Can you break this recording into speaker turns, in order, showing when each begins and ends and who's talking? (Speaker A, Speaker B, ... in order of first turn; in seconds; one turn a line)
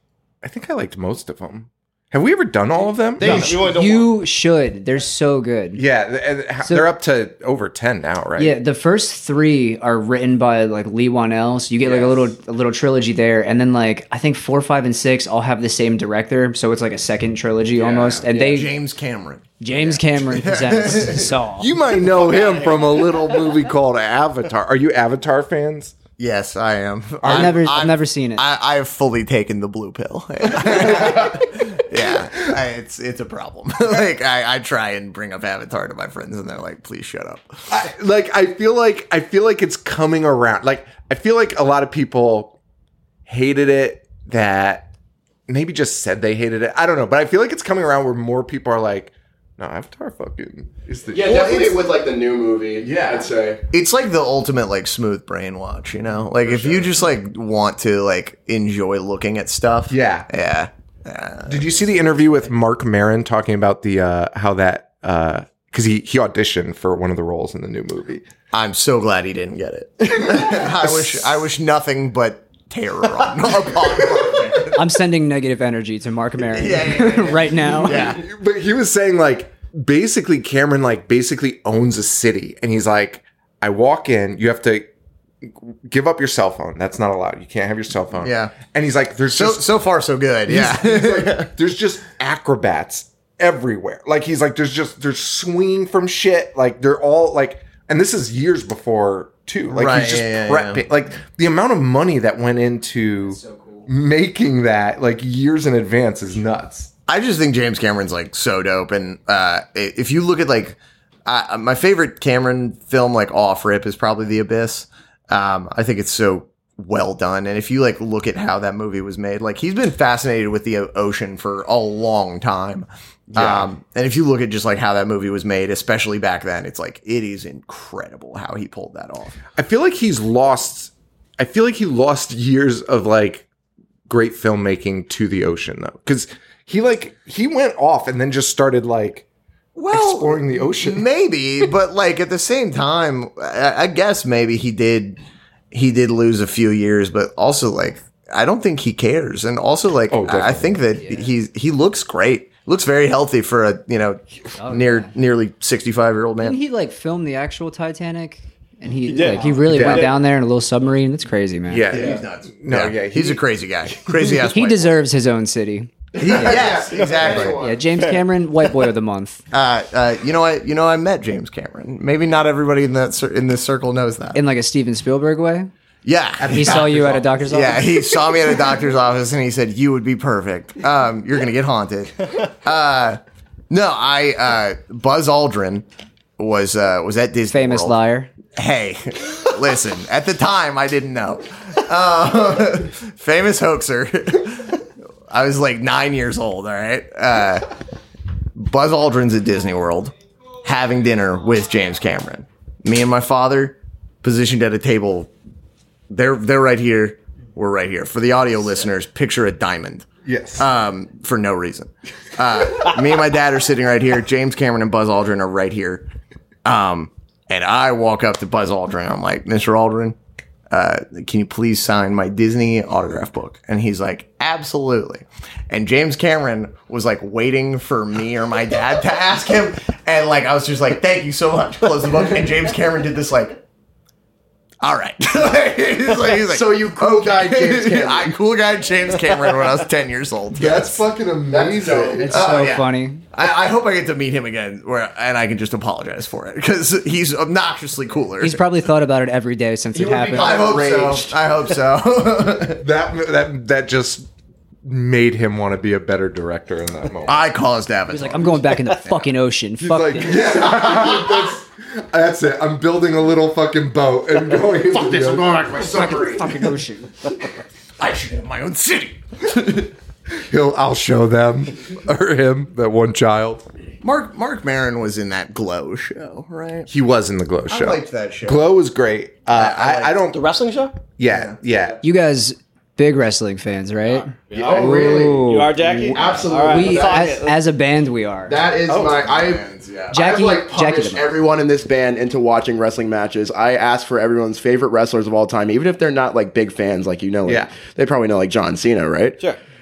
Speaker A: 0.4-3.5
Speaker B: 3.2-3.6
Speaker C: 3.2-4.2
Speaker D: 3.2-5.8
Speaker A: 5.8-8.6
Speaker D: 6.6-6.9
Speaker D: 8.4-18.7
Speaker B: 11.9-12.2
Speaker E: 17.8-21.4
Speaker B: 18.1-18.6
Speaker D: 19.6-21.7
Speaker A: 21.6-25.9
Speaker E: 26.2-37.6
Speaker A: 27.2-27.6
Speaker D: 27.2-28.4
Speaker A: 30.6-31.4
Speaker A: 37.7-42.5
Speaker A: 43.3-44.9
Speaker A: 45.5-51.6
Speaker B: 51.1-53.6
Speaker E: 51.2-51.8
Speaker E: 53.7-61.8
Speaker A: 59.9-60.3
Speaker A: 61.5-68.2
Speaker E: 68.5-74.8
Speaker A: 70.2-71.4
Speaker D: 74.7-78.1
Speaker E: 76.4-78.2
Speaker A: 77.9-84.9
Speaker A: 85.4-89.7
Speaker E: 88.2-88.5
Speaker E: 89.3-91.5
Speaker A: 90.5-106.9
Speaker E: 99.7-100.8
Speaker D: 103.2-103.9
Speaker E: 107.1-129.4
Speaker A: 123.3-123.7
Speaker A: 129.6-133.5
Speaker A: 134.1-139.2
Speaker E: 139.8-145.2
Speaker A: 139.9-141.1
Speaker E: 145.7-156.6
Speaker A: 150.1-150.8
Speaker D: 151.0-151.2
Speaker D: 154.5-155.1
Speaker D: 156.4-161.8
Speaker C: 159.1-160.1
Speaker A: 159.6-160.1
Speaker A: 161.7-163.4
Speaker E: 161.9-164.9
Speaker B: 161.9-162.2
Speaker D: 164.5-165.9
Speaker B: 166.1-167.8
Speaker E: 166.2-167.6
Speaker A: 166.3-166.8
Speaker D: 167.2-169.4
Speaker C: 167.9-168.2
Speaker E: 169.5-174.4
Speaker D: 174.3-175.7
Speaker E: 176.0-176.9
Speaker A: 176.4-177.9
Speaker D: 176.5-177.8
Speaker E: 177.5-185.8
Speaker E: 186.4-188.0
Speaker D: 187.5-188.3
Speaker E: 188.5-197.7
Speaker E: 198.5-205.3
Speaker E: 206.1-216.1
Speaker A: 210.2-210.7
Speaker E: 216.6-220.2
Speaker E: 220.7-233.6
Speaker E: 234.8-241.0
Speaker B: 236.4-238.3
Speaker A: 240.5-242.4
Speaker B: 241.4-242.3
Speaker D: 242.2-243.2
Speaker E: 242.2-248.6
Speaker D: 248.4-250.7
Speaker B: 249.9-251.3
Speaker E: 250.3-252.8
Speaker A: 252.6-254.3
Speaker A: 254.8-257.5
Speaker E: 257.2-259.2
Speaker D: 258.1-260.4
Speaker A: 259.8-266.2
Speaker E: 260.7-261.4
Speaker E: 265.0-266.7
Speaker B: 265.1-266.3
Speaker D: 265.9-267.3
Speaker E: 268.0-269.2
Speaker A: 269.5-273.6
Speaker E: 274.0-276.9
Speaker A: 276.9-280.4
Speaker E: 277.6-278.7
Speaker E: 279.5-280.2
Speaker C: 280.3-280.9
Speaker A: 281.2-282.0
Speaker E: 281.2-281.6
Speaker D: 282.0-288.6
Speaker B: 284.5-285.5
Speaker C: 284.5-287.6
Speaker B: 286.1-287.4
Speaker B: 288.4-299.4
Speaker A: 288.9-289.3
Speaker E: 289.1-290.3
Speaker D: 290.1-291.3
Speaker A: 297.4-297.8